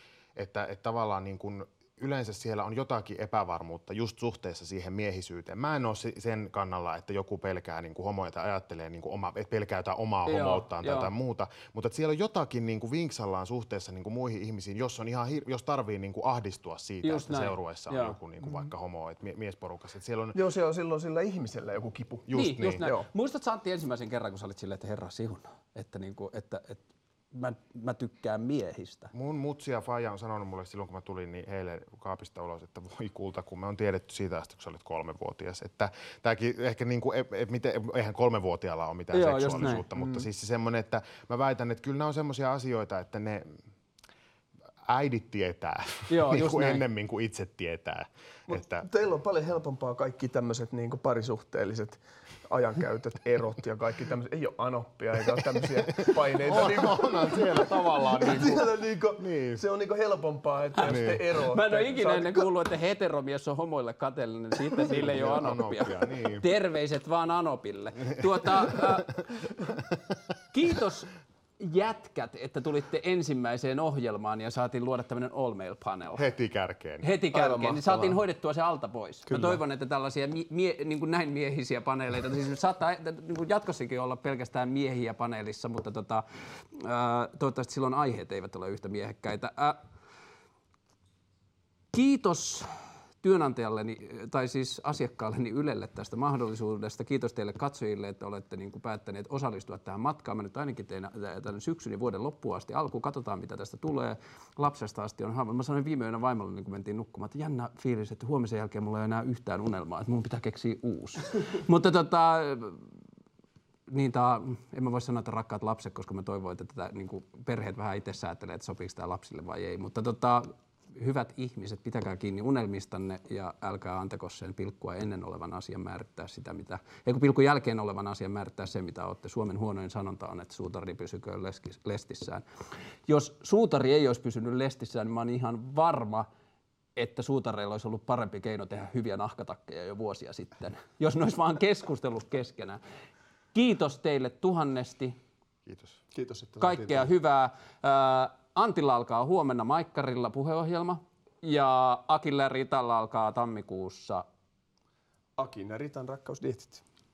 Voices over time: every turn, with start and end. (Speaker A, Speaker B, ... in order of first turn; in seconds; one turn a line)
Speaker A: 0.4-20.4
Speaker B: 10.3-11.1
Speaker B: 17.0-18.2
Speaker C: 20.3-22.3
Speaker A: 22.3-22.8
Speaker B: 22.3-29.1
Speaker C: 22.8-23.1
Speaker A: 29.1-43.6
Speaker B: 39.1-40.2
Speaker A: 44.9-48.9
Speaker B: 46.1-46.8
Speaker C: 48.5-57.5
Speaker A: 56.0-58.6
Speaker B: 56.5-58.5
Speaker C: 58.2-62.5
Speaker A: 59.2-59.6
Speaker B: 60.8-69.2
Speaker A: 60.8-61.2
Speaker A: 64.9-66.5
Speaker B: 70.5-76.2
Speaker A: 76.2-77.0
Speaker B: 77.0-89.8
Speaker C: 77.3-78.2
Speaker C: 79.3-79.6
Speaker B: 91.9-112.9
Speaker B: 113.9-132.4
Speaker B: 133.1-136.3
Speaker B: 137.0-142.8
Speaker B: 143.5-145.2
Speaker A: 145.7-146.0
Speaker C: 146.1-147.1
Speaker B: 146.6-154.2
Speaker C: 155.4-156.8